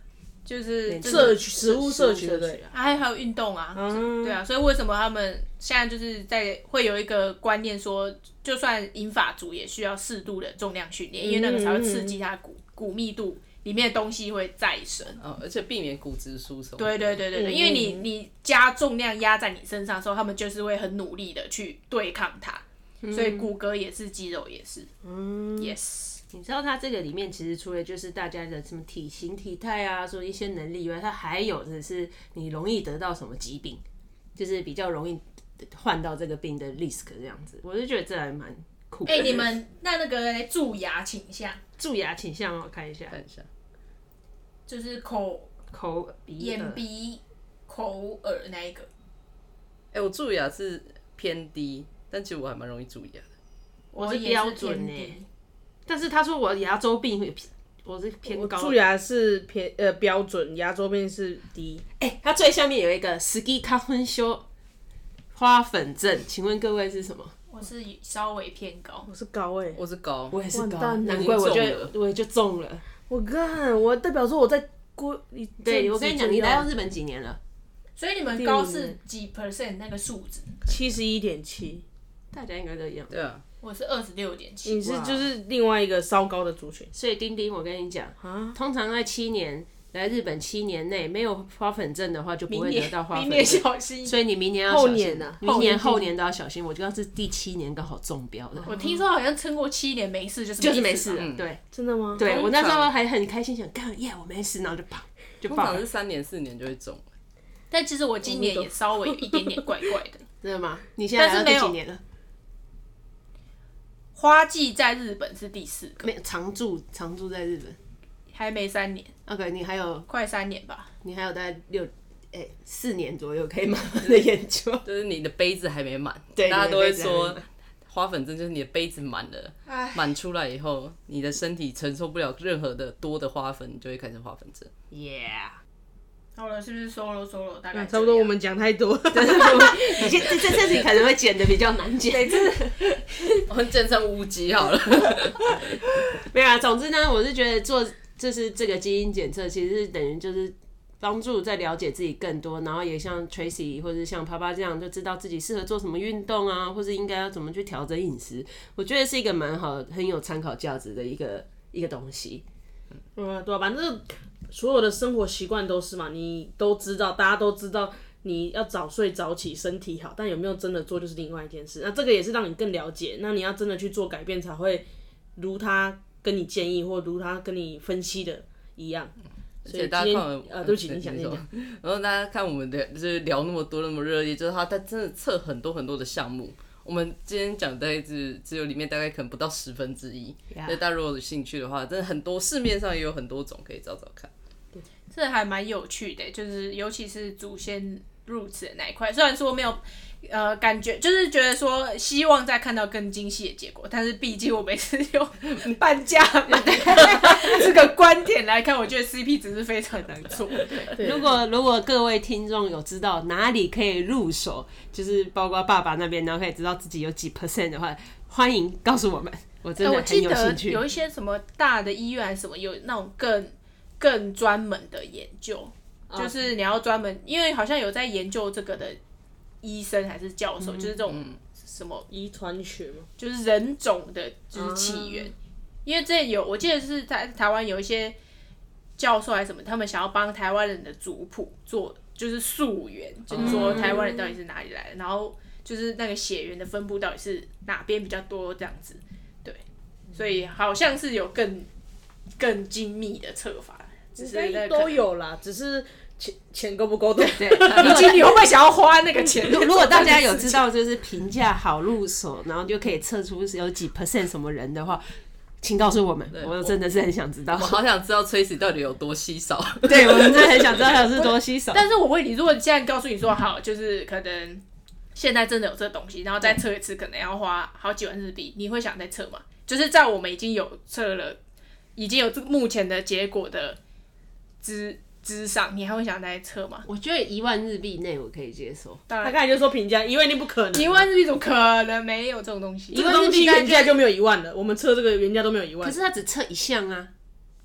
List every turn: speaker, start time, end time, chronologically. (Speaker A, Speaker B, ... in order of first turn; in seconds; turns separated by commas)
Speaker A: 0.5-1.4, Speaker B: 0.9-2.9, Speaker C: 1.0-2.6, Speaker A: 2.7-15.2, Speaker C: 3.8-4.4, Speaker C: 11.2-12.2, Speaker D: 15.2-17.2, Speaker A: 16.8-24.9, Speaker C: 17.4-18.1, Speaker B: 23.0-23.5, Speaker C: 25.1-25.7, Speaker A: 25.6-26.2, Speaker B: 26.3-33.8, Speaker B: 34.4-39.5, Speaker A: 39.1-41.6, Speaker B: 41.8-43.2, Speaker D: 43.1-43.5, Speaker A: 44.7-45.5, Speaker B: 45.7-46.8, Speaker A: 46.4-48.9, Speaker D: 49.9-53.2, Speaker A: 53.9-55.3, Speaker B: 54.0-55.2, Speaker B: 55.9-58.8, Speaker C: 58.3-61.8, Speaker B: 62.0-64.5, Speaker B: 65.3-67.3, Speaker A: 67.5-69.1, Speaker C: 69.1-69.8, Speaker D: 69.8-70.4, Speaker B: 70.3-72.8, Speaker C: 70.5-71.4, Speaker D: 71.0-71.9, Speaker C: 73.1-76.7, Speaker B: 75.6-77.4, Speaker A: 78.0-80.6, Speaker C: 78.3-79.0, Speaker C: 80.7-81.8, Speaker B: 82.3-83.2, Speaker D: 83.1-83.4, Speaker A: 83.6-85.3, Speaker C: 84.7-86.9, Speaker B: 86.9-98.8, Speaker C: 88.2-88.5, Speaker A: 92.5-94.2, Speaker C: 94.7-95.4, Speaker A: 95.4-96.1, Speaker A: 98.7-101.2, Speaker B: 100.6-101.6, Speaker D: 101.2-101.5, Speaker C: 101.7-102.2, Speaker B: 102.2-105.8, Speaker D: 102.2-102.9, Speaker D: 105.5-107.0, Speaker A: 107.7-110.2, Speaker C: 108.3-108.7, Speaker B: 110.4-112.0, Speaker A: 111.2-111.8, Speaker A: 114.2-116.1, Speaker B: 116.0-117.8, Speaker A: 118.3-119.1, Speaker B: 119.3-120.1, Speaker A: 120.1-120.9, Speaker B: 121.0-124.8, Speaker D: 124.8-134.7, Speaker B: 126.3-127.5, Speaker A: 129.7-130.1, Speaker B: 134.9-135.6, Speaker A: 136.4-138.3, Speaker C: 137.7-140.1, Speaker B: 139.1-143.0, Speaker A: 142.1-142.8, Speaker D: 143.5-145.6, Speaker B: 145.0-162.4, Speaker C: 163.2-174.8, Speaker C: 175.4-179.1, Speaker D: 179.7-194.3, Speaker C: 179.7-181.4, Speaker B: 190.5-190.8, Speaker A: 195.1-211.1, Speaker B: 206.5-207.6, Speaker B: 211.0-220.8, Speaker A: 219.8-229.0, Speaker A: 229.6-232.1, Speaker C: 232.1-233.1, Speaker A: 233.2-238.2, Speaker C: 234.6-235.2, Speaker A: 239.0-249.6, Speaker D: 243.3-243.7, Speaker B: 243.4-244.0, Speaker A: 250.1-251.7, Speaker A: 252.4-255.0, Speaker C: 254.2-258.2, Speaker B: 257.4-258.4, Speaker A: 257.4-260.6, Speaker B: 259.3-267.8, Speaker D: 266.3-266.7, Speaker D: 267.5-270.9, Speaker B: 269.8-271.9, Speaker A: 271.1-274.6, Speaker A: 275.1-281.4, Speaker A: 282.0-283.8, Speaker A: 284.6-286.9, Speaker B: 286.9-289.0, Speaker A: 289.1-289.4, Speaker C: 289.2-291.1, Speaker A: 290.7-293.9, Speaker B: 292.9-294.0, Speaker C: 292.9-296.0, Speaker B: 295.8-297.1